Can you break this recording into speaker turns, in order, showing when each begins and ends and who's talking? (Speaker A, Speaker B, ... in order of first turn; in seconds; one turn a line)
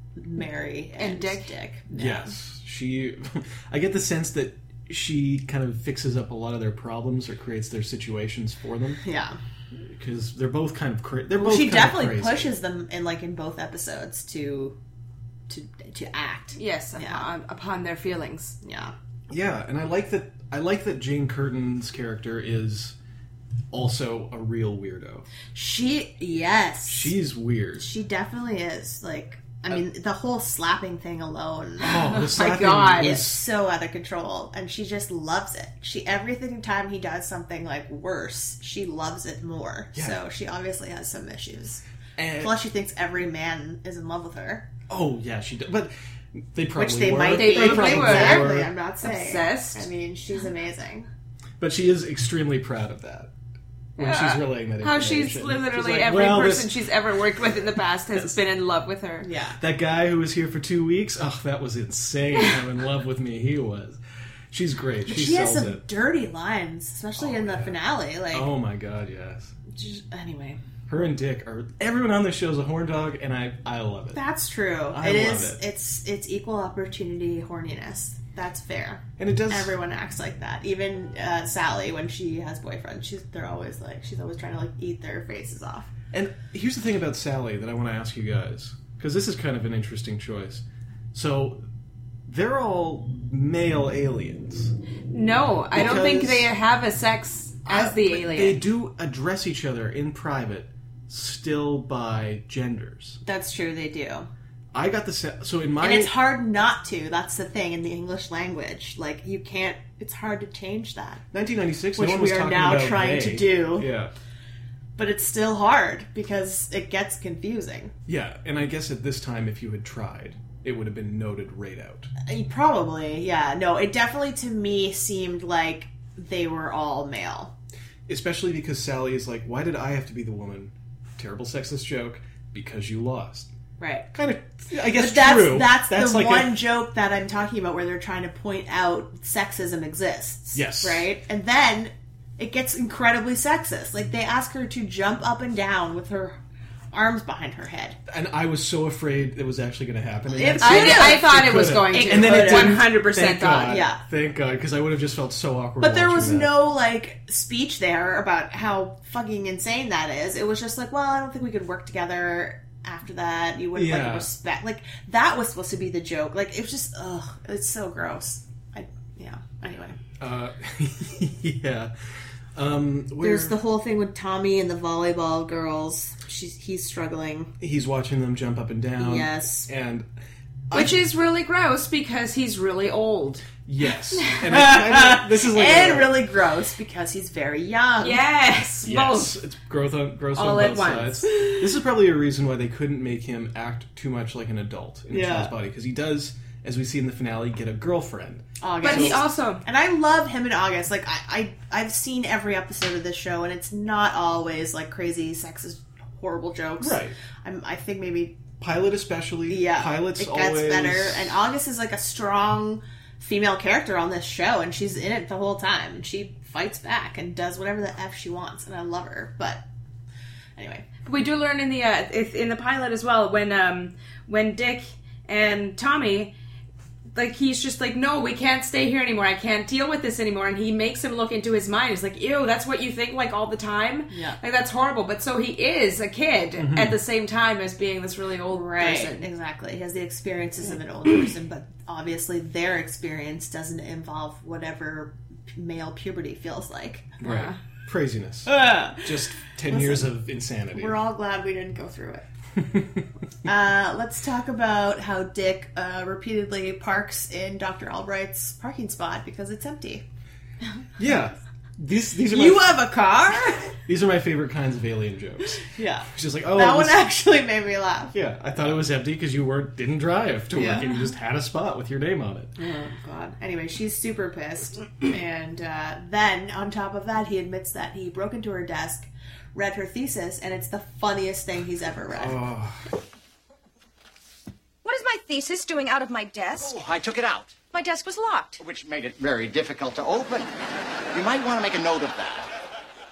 Speaker A: 0.1-2.4
Speaker B: 1.0-1.5
Speaker C: 1.9-9.0
Speaker A: 9.0-9.4
Speaker C: 9.7-12.5
Speaker A: 11.4-14.8
Speaker A: 15.5-17.3
Speaker B: 16.6-18.5
Speaker A: 18.6-18.9
Speaker C: 19.3-23.0
Speaker C: 23.7-25.2
Speaker A: 25.5-27.1
Speaker C: 26.9-27.9
Speaker A: 27.8-31.9
Speaker C: 31.8-33.4
Speaker B: 31.8-33.1
Speaker A: 33.0-41.8
Speaker C: 39.9-40.2
Speaker C: 42.2-42.6
Speaker A: 42.4-44.6
Speaker C: 44.9-48.7
Speaker A: 46.8-51.1
Speaker B: 47.3-49.9
Speaker C: 51.6-53.3
Speaker C: 54.0-56.8
Speaker B: 54.0-59.3
Speaker A: 59.2-59.6
Speaker C: 59.6-64.0
Speaker C: 64.5-65.8
Speaker A: 65.1-68.5
Speaker C: 67.2-67.8
Speaker C: 68.3-69.5
Speaker A: 69.7-70.6
Speaker C: 70.9-74.2
Speaker A: 74.1-85.9
Speaker C: 74.9-75.6
Speaker C: 79.2-79.8
Speaker C: 86.1-91.6
Speaker C: 92.2-94.7
Speaker B: 95.1-98.6
Speaker C: 95.7-96.5
Speaker A: 95.8-96.1
Speaker C: 97.7-103.2
Speaker A: 103.2-104.3
Speaker C: 104.7-106.1
Speaker A: 105.8-111.2
Speaker C: 111.3-114.1
Speaker A: 112.0-113.9
Speaker A: 115.0-117.9
Speaker C: 118.1-122.1
Speaker A: 122.2-127.5
Speaker C: 128.1-133.5
Speaker A: 133.8-134.1
Speaker C: 134.1-136.6
Speaker A: 134.7-146.4
Speaker C: 140.5-141.1
Speaker A: 146.9-148.0
Speaker C: 148.1-156.5
Speaker A: 150.3-151.3
Speaker B: 150.6-153.8
Speaker A: 151.9-152.8
Speaker A: 153.6-154.0
Speaker A: 155.8-170.0
Speaker C: 163.7-164.3
Speaker C: 170.2-171.9
Speaker C: 172.5-173.6
Speaker A: 173.2-177.5
Speaker C: 177.6-180.1
Speaker A: 179.0-179.7
Speaker C: 180.7-181.0
Speaker B: 180.7-183.5
Speaker C: 183.7-186.2
Speaker A: 184.5-188.3
Speaker B: 188.0-189.3
Speaker C: 188.8-199.2
Speaker B: 190.3-191.5
Speaker A: 195.1-195.5
Speaker A: 198.6-208.4
Speaker B: 198.8-199.6
Speaker C: 206.8-207.2
Speaker C: 208.6-211.4
Speaker A: 209.5-219.6
Speaker A: 220.6-220.9
Speaker B: 221.1-226.3
Speaker B: 227.1-239.3
Speaker A: 234.1-234.4
Speaker C: 236.6-237.0
Speaker A: 238.5-247.1
Speaker C: 247.2-251.0
Speaker B: 247.2-247.6
Speaker A: 248.5-250.1
Speaker A: 250.7-252.2
Speaker C: 252.6-253.0
Speaker A: 253.4-260.0
Speaker C: 261.0-262.9
Speaker A: 262.3-263.8
Speaker C: 263.8-267.0
Speaker A: 265.6-268.1
Speaker C: 268.1-272.5
Speaker A: 270.5-270.9
Speaker A: 272.6-282.4
Speaker C: 282.1-282.9
Speaker D: 284.8-286.8
Speaker E: 286.6-287.6
Speaker D: 287.7-288.6
Speaker E: 288.6-290.5
Speaker E: 291.1-292.5